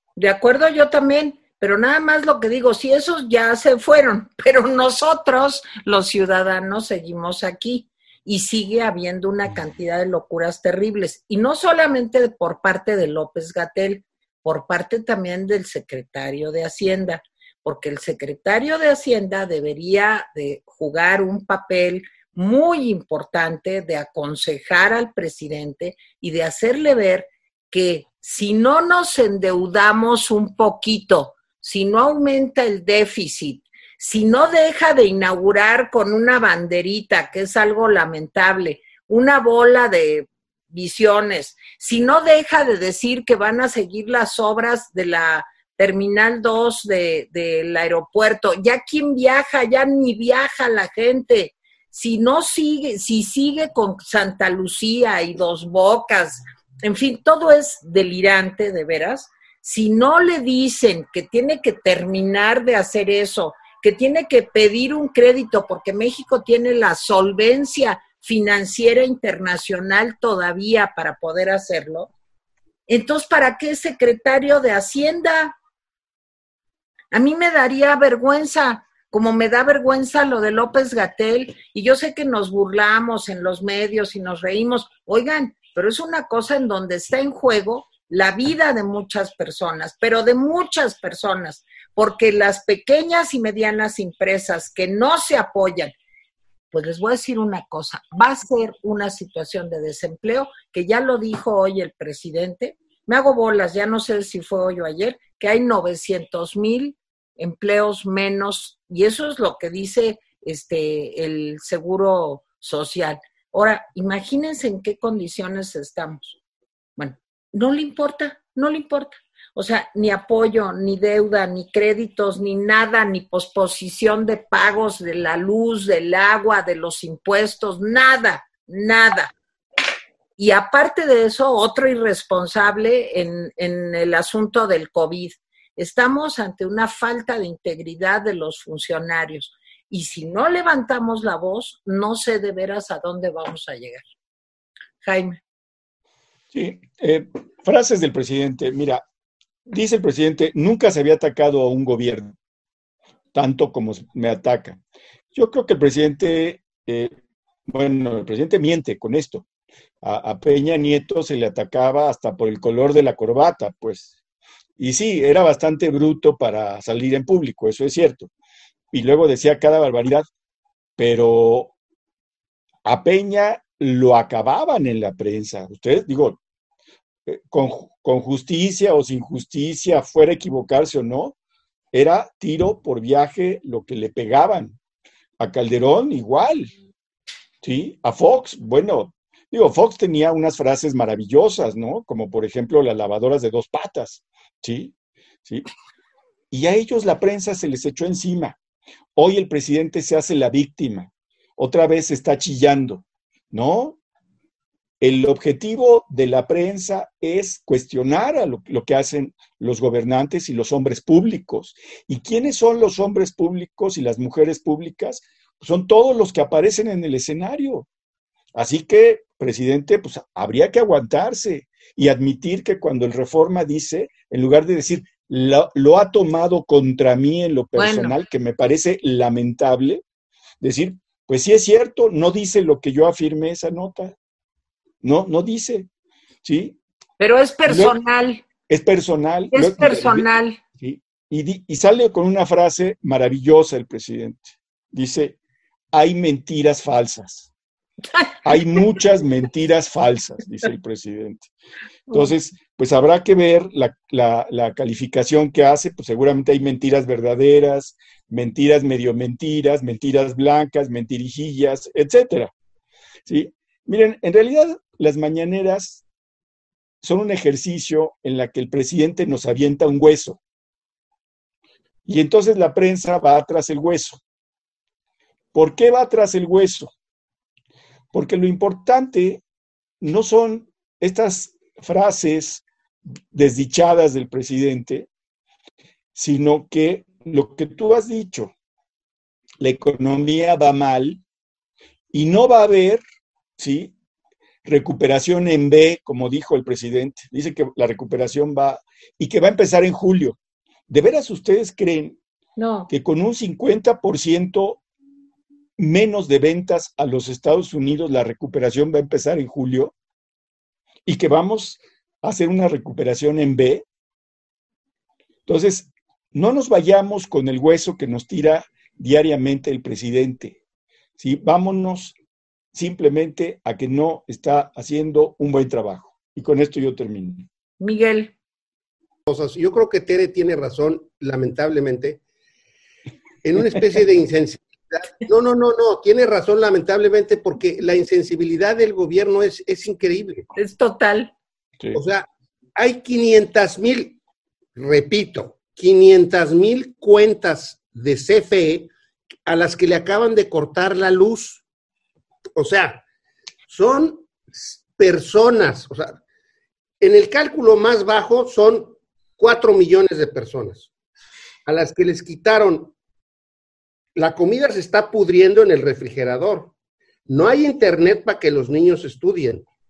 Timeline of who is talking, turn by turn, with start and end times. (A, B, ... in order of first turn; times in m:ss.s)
0:00.2-1:12.1 A
1:12.9-1:15.6 A
1:17.1-1:35.9 A
1:36.7-1:56.4 A
1:57.0-2:09.3 A
2:10.4-2:24.1 A
2:25.0-2:25.4 A
2:26.5-2:29.0 B
2:29.7-2:32.3 B
2:33.3-2:34.8 B
2:35.3-2:37.1 B
2:37.7-2:39.4 B
2:40.0-2:44.1 B
2:44.8-2:48.3 B
2:48.9-2:50.2 B
2:51.0-2:51.7 B
2:52.8-2:56.4 B
2:57.2-3:01.4 B
3:01.9-3:04.8 B
3:05.4-3:06.7 B
3:07.6-3:14.9 B
3:16.5-3:18.6 B
3:19.2-3:24.0 B
3:25.0-3:37.9 B
3:38.5-3:50.0 B
3:47.8-3:48.2 A
3:50.6-3:54.1 B
3:55.0-3:55.9 B
3:56.4-3:56.8 B
3:57.2-3:58.4 A
3:57.7-3:57.9 B
3:58.7-4:05.4 B
3:59.5-4:00.6 A
4:05.9-4:07.5 B
4:08.4-4:11.5 B
4:12.1-4:22.5 B
4:23.2-4:26.0 B
4:27.0-4:30.4 B
4:32.0-4:34.2 B
4:35.5-4:36.9 B
4:38.1-4:39.4 B
4:40.0-4:42.6 B
4:43.3-4:45.1 B
4:46.1-4:48.5 B
4:49.6-4:51.2 B
4:52.1-4:53.0 B
4:53.6-4:53.9 B
4:54.6-5:00.4 B
5:00.9-5:02.2 B
5:02.6-5:02.9 A
5:02.9-5:04.8 B
5:05.8-5:09.9 B
5:11.0-5:13.8 B
5:15.5-5:20.6 B
5:21.2-5:22.2 B
5:22.7-5:27.5 B
5:27.8-5:28.3 A
5:29.3-5:32.2 C
5:33.4-5:40.5 C
5:40.5-5:41.3 A
5:41.9-5:44.2 C
5:44.8-5:48.9 C
5:49.4-5:51.6 C
5:52.6-5:53.0 C
5:53.7-5:56.2 C
5:57.0-6:00.9 C
6:01.6-6:02.9 C
6:04.2-6:06.7 C
6:07.3-6:09.6 C